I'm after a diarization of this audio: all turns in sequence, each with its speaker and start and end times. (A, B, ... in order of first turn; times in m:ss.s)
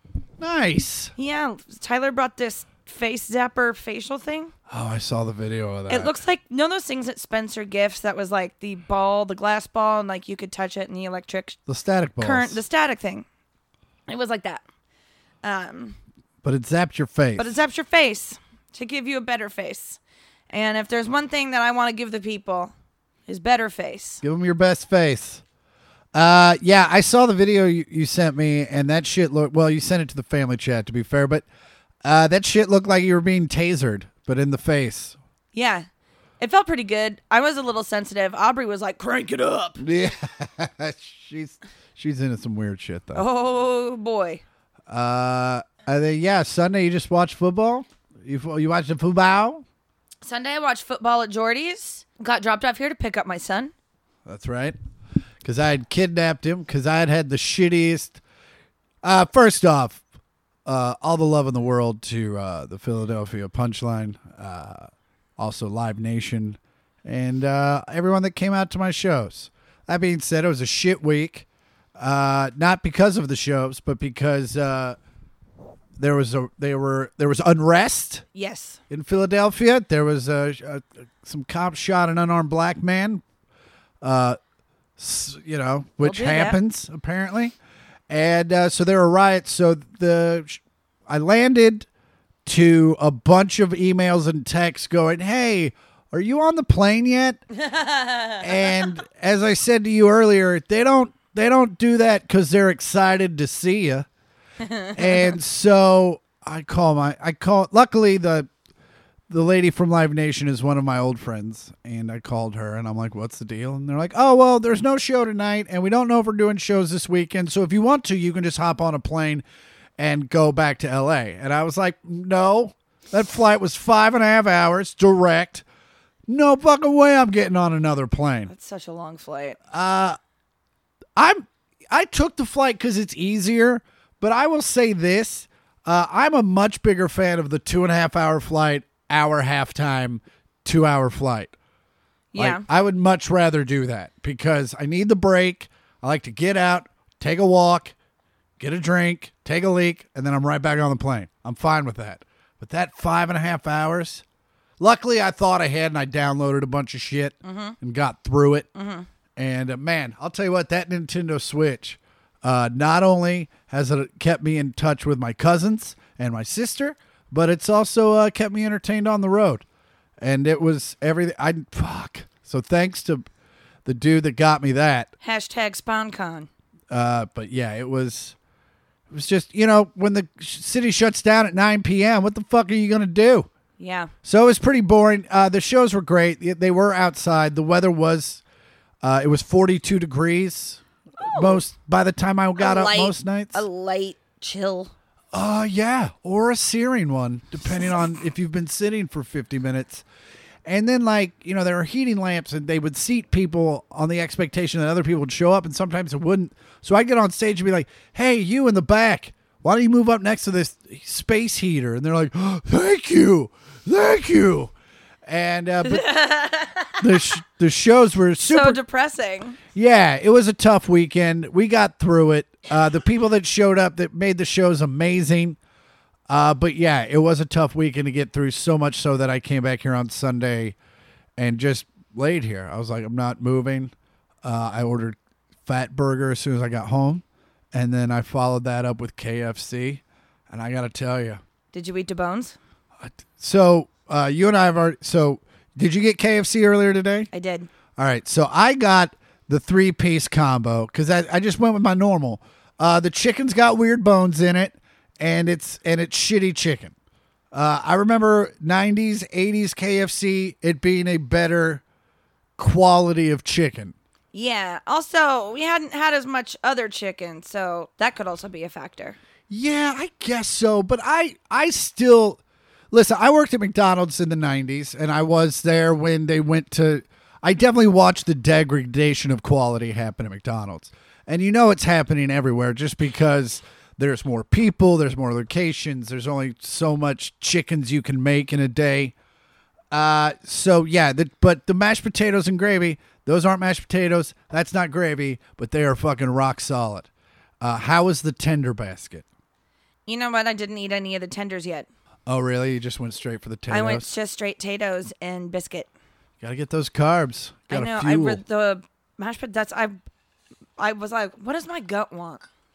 0:00.4-0:01.1 A
0:01.2-0:04.5 B
0:04.7-0:06.1 A
0:05.9-0:11.6 B
0:11.7-0:12.6 A
0:12.2-0:13.3 B
0:14.1-0:14.6 B
0:15.4-0:16.0 B
0:16.4-0:17.6 A
0:17.4-0:20.0 B
0:20.5-0:22.7 B
0:23.3-0:24.2 B
0:24.2-0:25.4 A
0:26.1-0:31.5 A
0:32.0-0:35.2 A
0:35.5-0:35.9 B
0:36.4-0:39.8 B
0:39.8-0:43.2 A
0:43.2-0:44.4 B
0:44.9-0:49.6 A
0:50.2-0:53.7 B
0:54.3-0:54.8 A
0:55.4-0:58.2 A
0:59.0-1:00.0 A
1:00.7-1:11.5 A
1:12.0-1:15.0 A
1:16.0-1:18.2 A
1:18.3-1:18.8 B
1:18.9-1:23.2 A
1:24.0-1:24.4 A
1:25.0-1:27.5 A
1:26.0-1:26.6 B
1:28.1-1:31.9 A
1:32.4-1:37.4 A
1:37.5-1:38.9 B
1:38.4-1:44.1 A
1:44.6-1:45.4 B
1:45.0-1:48.5 A
1:49.3-1:59.4 A
2:00.0-2:05.6 A
2:06.3-2:08.5 A
2:08.5-2:09.6 B
2:09.7-2:10.2 A
2:11.2-2:21.6 A
2:22.3-2:22.6 B
2:22.4-2:27.9 A
2:28.6-2:34.2 A
2:34.8-2:38.7 A
2:37.4-2:37.8 B
2:38.8-2:39.1 B
2:39.4-2:49.6 A
2:50.2-2:53.2 A
2:53.8-2:55.1 A
2:55.2-2:56.5 B
2:56.9-2:58.4 A
2:59.1-3:03.5 A
3:03.8-3:04.1 B
3:04.2-3:08.4 A
3:09.0-3:13.7 A
3:11.2-3:11.6 B
3:12.6-3:14.9 B
3:15.3-3:20.0 A
3:20.6-3:34.7 A
3:35.3-3:36.1 A
3:35.8-3:37.2 B
3:37.0-3:38.8 A
3:38.5-3:39.6 B
3:39.7-3:45.6 A
3:46.3-3:50.8 A
3:51.4-3:53.9 A
3:54.4-4:01.4 A
4:01.7-4:02.6 B
4:03.0-4:07.3 A
4:07.3-4:07.7 B
4:08.0-4:16.9 A
4:17.5-4:21.8 A
4:22.6-4:24.0 A
4:24.3-4:29.2 B
4:29.5-4:32.4 A
4:32.9-4:49.1 A
4:49.9-4:57.1 A
4:57.6-4:59.3 A
5:00.1-5:01.9 B
5:02.3-5:04.1 A
5:03.7-5:05.9 B
5:06.4-5:08.4 A
5:07.7-5:10.0 B
5:10.8-5:12.4 B